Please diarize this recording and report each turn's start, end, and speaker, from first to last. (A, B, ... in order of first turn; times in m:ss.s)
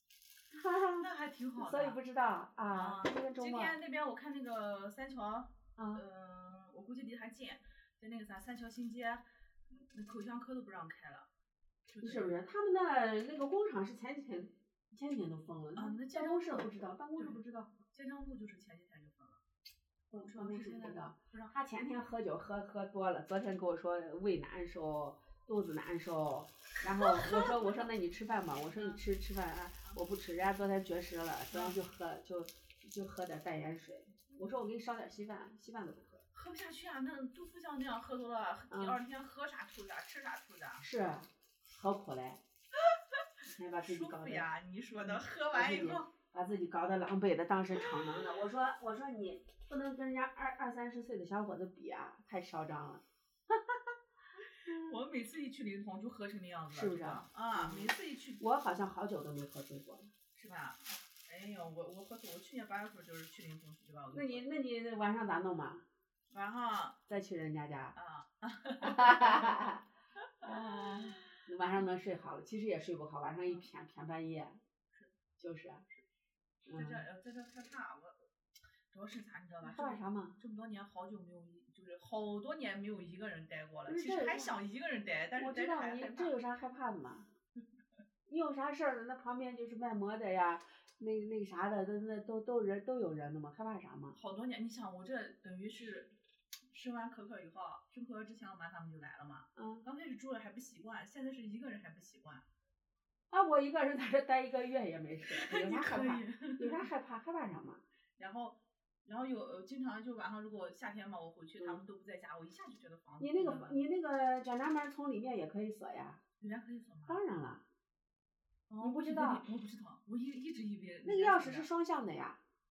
0:00.5-0:03.8 A
0:01.0-0:02.0 B
0:02.7-0:11.3 B
0:05.8-0:06.0 A
0:11.9-0:12.4 B
0:12.0-0:17.7 A
0:15.8-0:19.4 B
0:20.1-0:36.2 A
0:20.1-0:21.6 B
0:26.8-0:27.7 B
0:28.7-0:29.0 B
0:31.5-0:31.8 B
0:36.3-0:40.8 B
0:38.7-0:39.0 A
0:40.8-0:42.4 A
0:42.9-0:43.2 B
0:43.4-0:53.8 A
0:43.8-0:46.1 B
0:47.7-0:48.4 B
0:54.6-0:58.4 B
0:54.7-0:55.0 A
0:56.7-1:00.1 A
1:00.3-1:04.4 B
1:04.1-1:05.8 A
1:06.3-1:07.0 B
1:07.1-1:08.0 A
1:07.9-1:09.8 B
1:08.8-1:09.8 A
1:10.4-1:11.5 B
1:10.4-1:14.6 A
1:15.4-1:15.8 A
1:16.7-1:18.2 B
1:16.7-1:17.0 A
1:18.9-1:26.3 B
1:19.6-1:20.4 A
1:23.9-1:24.6 A
1:25.4-1:27.3 A
1:28.3-1:34.2 A
1:34.1-1:36.2 B
1:36.7-1:42.4 B
1:39.6-1:39.8 A
1:43.3-1:47.8 A
1:45.3-1:46.9 B
1:48.2-1:53.8 B
1:51.6-1:51.8 A
1:53.2-1:56.2 A
1:56.4-1:57.2 B
1:57.1-1:57.6 A
1:58.7-2:01.7 B
1:58.8-1:59.4 A
2:01.0-2:02.4 A